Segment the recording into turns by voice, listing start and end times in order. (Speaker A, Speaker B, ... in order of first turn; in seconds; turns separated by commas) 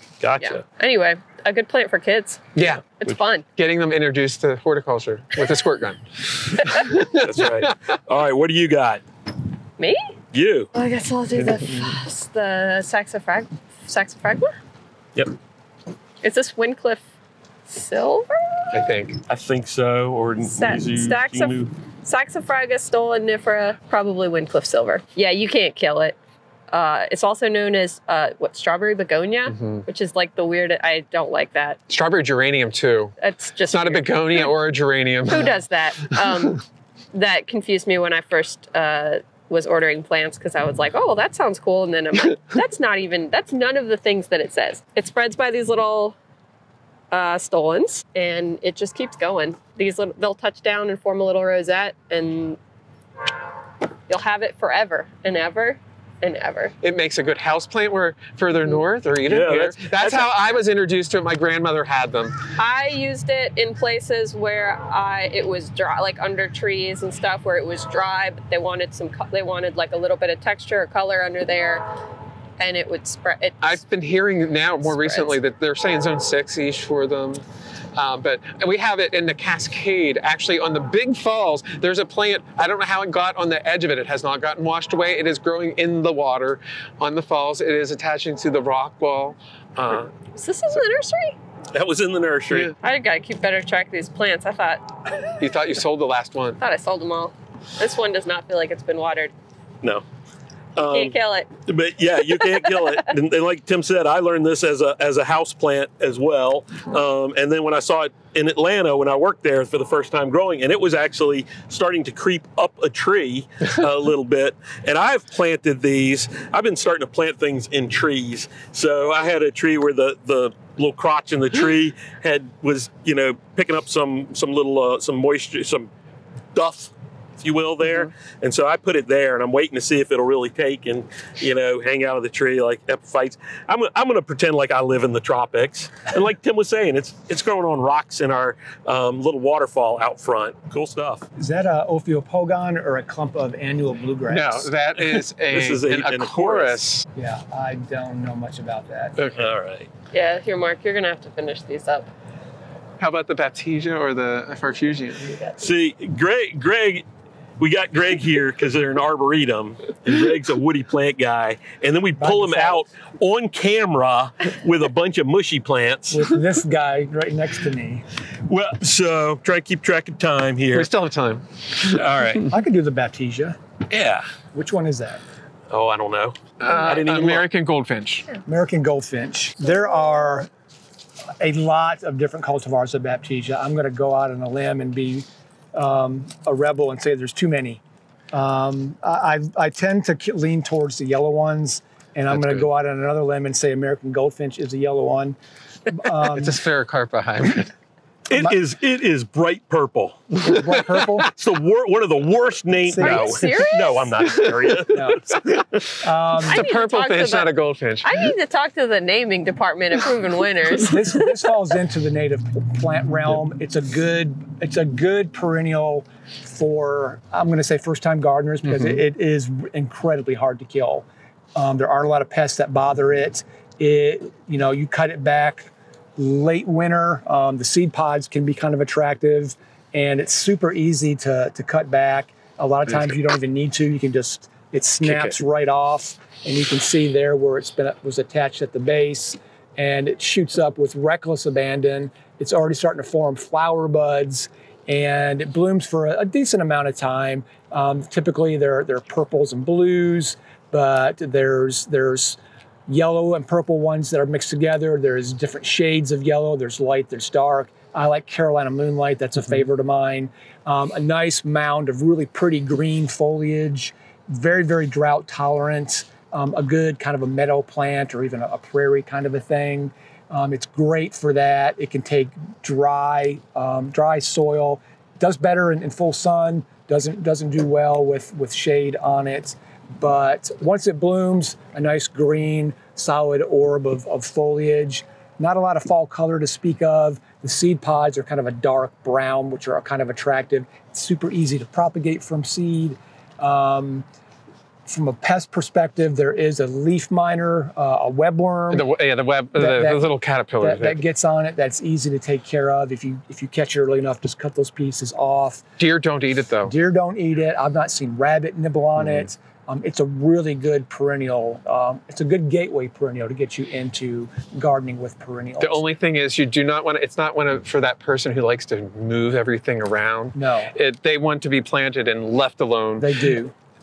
Speaker A: 0.2-0.6, Speaker B: 0.4-3.5, Speaker C: 2.5-2.9, Speaker C: 3.6-7.7, Speaker A: 7.1-9.0, Speaker B: 9.8-10.1, Speaker A: 10.3-10.7, Speaker B: 10.8-14.6, Speaker B: 16.2-17.1, Speaker B: 17.7-18.9, Speaker C: 18.7-19.2, Speaker A: 19.3-21.7, Speaker B: 20.4-26.2, Speaker B: 26.7-31.8, Speaker C: 29.5-29.9, Speaker C: 31.9-33.1, Speaker B: 33.2-34.5, Speaker C: 33.7-35.6, Speaker B: 35.3-46.2, Speaker C: 36.2-36.5, Speaker B: 47.1-52.6, Speaker B: 54.1-56.7, Speaker C: 56.8-62.5, Speaker A: 59.2-60.3, Speaker B: 62.6-71.9, Speaker B: 72.6-73.8, Speaker C: 73.6-77.4, Speaker B: 74.8-75.4, Speaker C: 78.0-90.1, Speaker B: 90.3-91.4, Speaker A: 91.7-92.7, Speaker B: 92.8-95.3, Speaker C: 95.4-96.6, Speaker B: 96.6-99.3, Speaker A: 100.8-125.9, Speaker B: 100.9-101.5, Speaker B: 102.3-103.0, Speaker A: 126.5-141.3, Speaker D: 141.4-144.7, Speaker C: 144.3-147.1, Speaker A: 145.1-146.8, Speaker D: 147.2-149.2, Speaker A: 149.3-149.9, Speaker B: 150.1-152.1, Speaker C: 153.0-155.4, Speaker A: 155.6-157.1, Speaker A: 157.6-166.3, Speaker D: 162.2-162.8, Speaker D: 166.1-168.1, Speaker A: 168.5-170.9, Speaker C: 170.7-172.0, Speaker A: 171.8-172.5, Speaker D: 172.5-173.6, Speaker A: 173.9-174.3, Speaker D: 174.5-175.2, Speaker A: 175.7-177.5, Speaker C: 176.6-178.3, Speaker D: 178.5-180.5, Speaker D: 181.4-187.8, Speaker D: 188.3-195.4, Speaker C: 192.3-192.7, Speaker D: 195.9-196.6, Speaker C: 196.2-197.7, Speaker A: 198.3-200.3, Speaker D: 198.3-198.6, Speaker D: 200.4-201.3, Speaker C: 200.5-201.3, Speaker A: 201.3-205.9, Speaker D: 202.8-203.6, Speaker B: 203.0-204.2, Speaker C: 204.2-204.7, Speaker D: 204.9-205.4, Speaker D: 206.0-206.7, Speaker C: 206.4-208.3, Speaker B: 206.5-207.5, Speaker B: 208.0-211.5, Speaker D: 210.8-294.1, Speaker C: 218.7-219.0, Speaker C: 235.0-235.4, Speaker D: 294.9-298.9, Speaker C: 298.7-301.0, Speaker D: 299.6-300.1, Speaker D: 300.6-305.6, Speaker C: 305.8-306.7, Speaker D: 306.6-315.8, Speaker C: 309.0-309.3, Speaker C: 315.6-323.1, Speaker D: 320.4-320.7, Speaker D: 323.0-323.6